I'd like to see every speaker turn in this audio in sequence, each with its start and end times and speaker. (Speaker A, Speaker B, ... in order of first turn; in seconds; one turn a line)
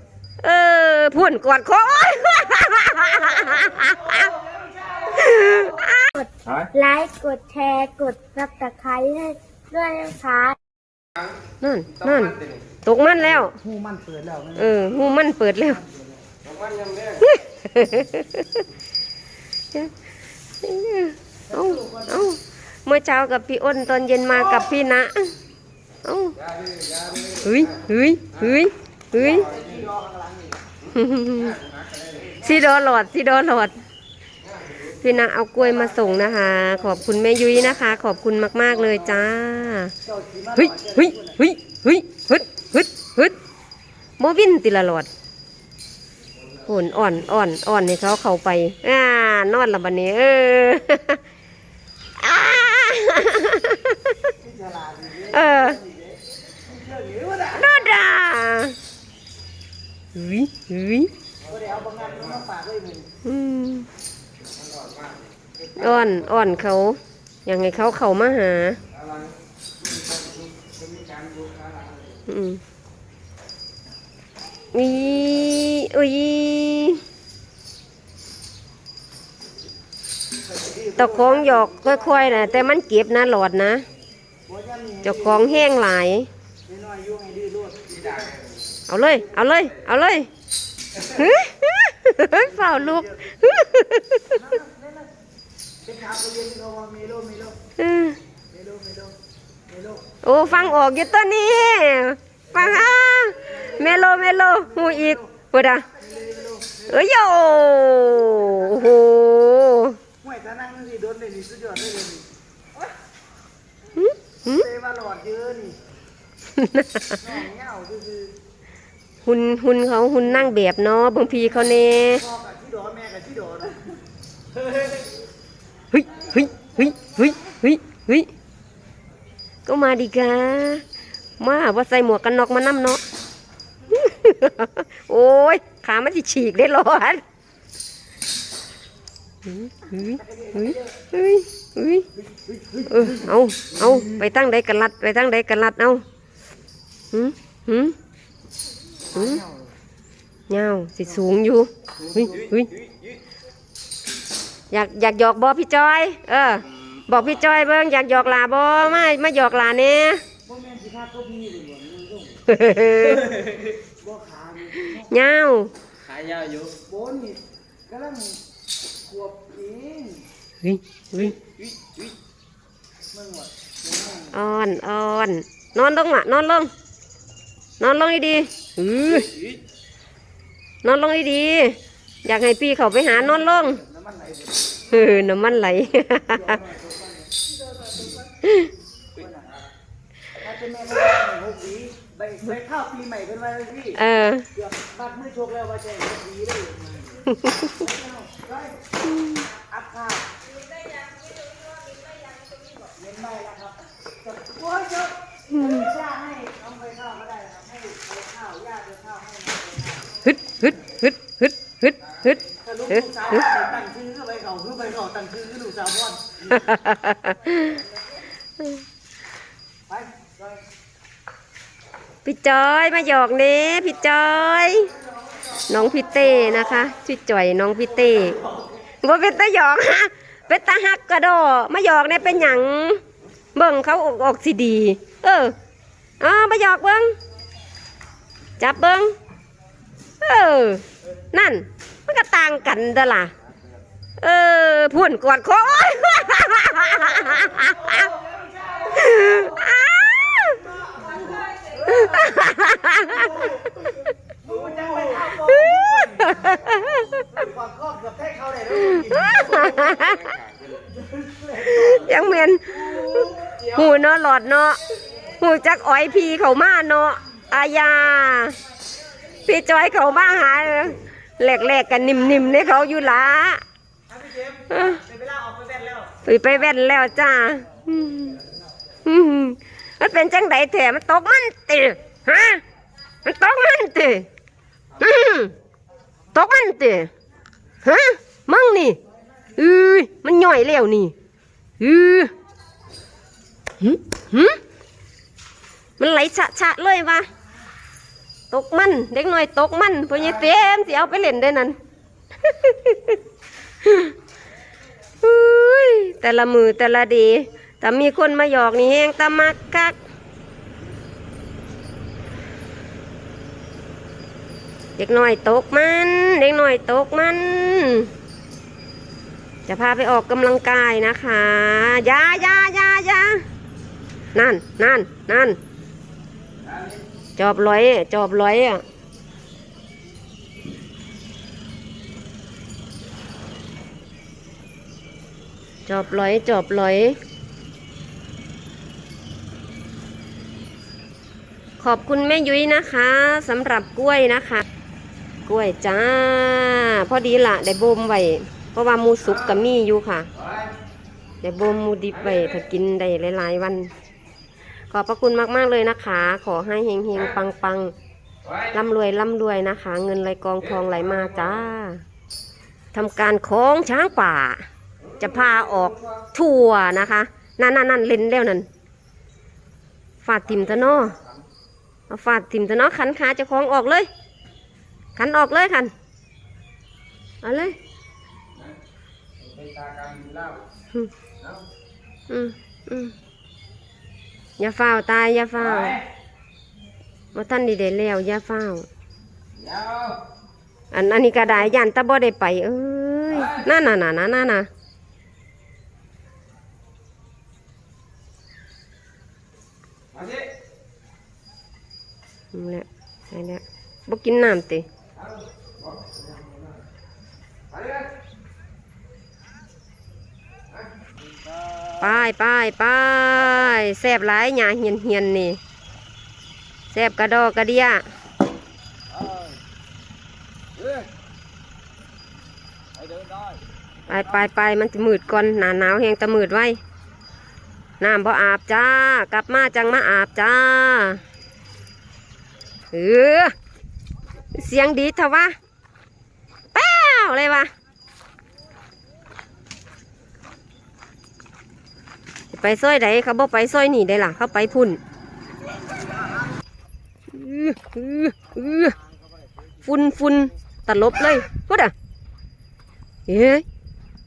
Speaker A: 0.4-4.4
Speaker A: 5.0-6.1
Speaker B: 6.2-10.6
Speaker A: 11.6-13.6
Speaker C: 13.6-14.7
Speaker A: 14.6-15.8
Speaker C: 15.8-16.2
Speaker D: 16.5-17.0
Speaker A: 17.2-18.7
Speaker A: 20.6-25.3
Speaker C: 21.5-22.2
Speaker A: 26.0-26.4
Speaker D: 26.6-27.3
Speaker A: 27.4-29.5
Speaker C: 29.3-30.6
Speaker A: 30.9-31.6
Speaker D: 31.7-32.1
Speaker A: 32.4-33.8
Speaker A: 34.8-39.9
Speaker C: 40.0-41.4
Speaker A: 40.6-43.4
Speaker A: 44.2-45.1
Speaker A: 46.7-51.2
Speaker A: 52.2-54.3
Speaker C: 54.4-57.8
Speaker A: 55.3-55.8
Speaker A: 57.5-58.8
Speaker A: 60.1-61.1
Speaker C: 61.5-63.1
Speaker A: 63.2-63.9
Speaker D: 64.8-65.1
Speaker A: 65.8-68.8
Speaker D: 69.9-72.0
Speaker A: 72.3-72.6
Speaker A: 74.7-77.0
Speaker C: 80.5-82.5
Speaker A: 81.0-83.8
Speaker C: 84.5-85.7
Speaker A: 85.0-86.3
Speaker C: 86.7-88.3
Speaker A: 88.9-90.3
Speaker A: 91.0-94.5
Speaker C: 92.3-93.3
Speaker C: 94.3-95.1
Speaker C: 95.8-97.6
Speaker A: 97.8-98.2
Speaker C: 98.5-99.2
Speaker C: 99.7-100.2
Speaker A: 100.2-105.9
Speaker C: 103.6-105.2
Speaker C: 105.9-107.0
Speaker A: 106.8-110.0
Speaker C: 110.2-112.3
Speaker A: 114.0-114.7
Speaker C: 114.5-115.8
Speaker A: 116.6-117.3
Speaker C: 117.2-118.3
Speaker A: 119.2-122.2
Speaker C: 122.2-123.9
Speaker A: 125.9-128.3
Speaker A: 129.7-130.8
Speaker A: 131.4-133.0
Speaker A: 133.9-137.2
Speaker A: 139.4-142.1
Speaker C: 140.2-140.9
Speaker C: 142.3-143.3
Speaker A: 142.9-146.0
Speaker A: 147.1-148.0
Speaker A: 149.1-149.4
Speaker C: 149.2-149.6
Speaker A: 150.5-152.7
Speaker A: 154.7-160.2
Speaker C: 160.5-162.4
Speaker A: 162.5-163.5
Speaker C: 163.8-165.1
Speaker A: 164.8-165.7
Speaker D: 166.1-166.7
Speaker C: 166.8-168.4
Speaker C: 169.1-170.3
Speaker A: 170.6-171.4
Speaker C: 173.1-174.3
Speaker A: 174.3-176.7
Speaker A: 177.8-179.3
Speaker A: 180.8-183.8
Speaker C: 183.3-185.0
Speaker A: 184.9-186.6
Speaker C: 186.3-187.3
Speaker A: 188.4-188.7
Speaker C: 189.2-189.6
Speaker C: 190.4-194.0
Speaker A: 194.0-194.5
Speaker C: 194.6-198.7
Speaker A: 197.3-197.8
Speaker A: 199.1-199.5
Speaker C: 199.6-200.3
Speaker C: 202.9-210.1
Speaker A: 205.6-205.8
Speaker A: 210.2-212.4
Speaker C: 212.6-216.6
Speaker A: 216.5-217.8
Speaker C: 219.9-220.6
Speaker A: 222.2-224.9
Speaker A: 225.7-228.4
Speaker A: 229.0-233.0
Speaker A: 233.6-235.6
Speaker A: 236.2-237.1
Speaker A: 238.6-239.1
Speaker A: 240.2-243.3
Speaker A: 244.2-248.2
Speaker C: 248.2-249.5
Speaker A: 248.8-250.9
Speaker C: 250.9-252.1
Speaker A: 251.7-253.9
Speaker C: 253.1-253.6
Speaker C: 254.4-260.0
Speaker A: 255.1-257.3
Speaker A: 258.8-260.4
Speaker C: 261.0-262.2
Speaker A: 261.5-264.8
Speaker C: 262.8-263.7
Speaker A: 265.3-268.6
Speaker A: 269.5-273.6
Speaker C: 274.1-276.2
Speaker A: 274.7-275.0
Speaker A: 276.2-278.4
Speaker A: 279.1-282.6
Speaker A: 283.2-284.3
Speaker A: 285.0-285.5
Speaker A: 286.3-287.1
Speaker A: 287.8-289.0
Speaker A: 289.6-291.1
Speaker A: 291.8-292.3
Speaker A: 293.8-294.6
Speaker A: 296.0-297.3
Speaker A: 298.5-301.8
Speaker A: 302.4-303.2
Speaker A: 303.8-304.1
Speaker A: 305.2-310.0
Speaker A: 315.0-318.1
Speaker A: 319.7-323.4
Speaker A: 324.3-325.6
Speaker A: 327.4-328.8
Speaker A: 335.9-337.2
Speaker A: 341.8-344.6
Speaker A: 345.4-350.3
Speaker A: 351.4-353.9
Speaker A: 354.9-357.9
Speaker A: 358.6-362.0
Speaker A: 362.9-364.6
Speaker A: 365.2-368.7
Speaker A: 370.2-371.2
Speaker A: 372.1-374.1
Speaker A: 375.2-375.9
Speaker A: 377.4-377.8
Speaker D: 379.4-380.6
Speaker A: 382.3-383.1
Speaker A: 384.6-386.0
Speaker A: 387.3-388.9
Speaker D: 389.6-390.2
Speaker A: 390.9-394.7
Speaker D: 400.1-400.4
Speaker A: 402.5-404.9
Speaker A: 412.0-415.6
Speaker A: 416.9-418.1
Speaker A: 424.1-426.8
Speaker A: 428.0-431.2
Speaker A: 432.9-433.5
Speaker A: 434.5-435.5
Speaker A: 436.7-437.7
Speaker A: 442.5-445.0
Speaker A: 447.3-449.0
Speaker A: 449.8-451.9
Speaker A: 453.3-453.6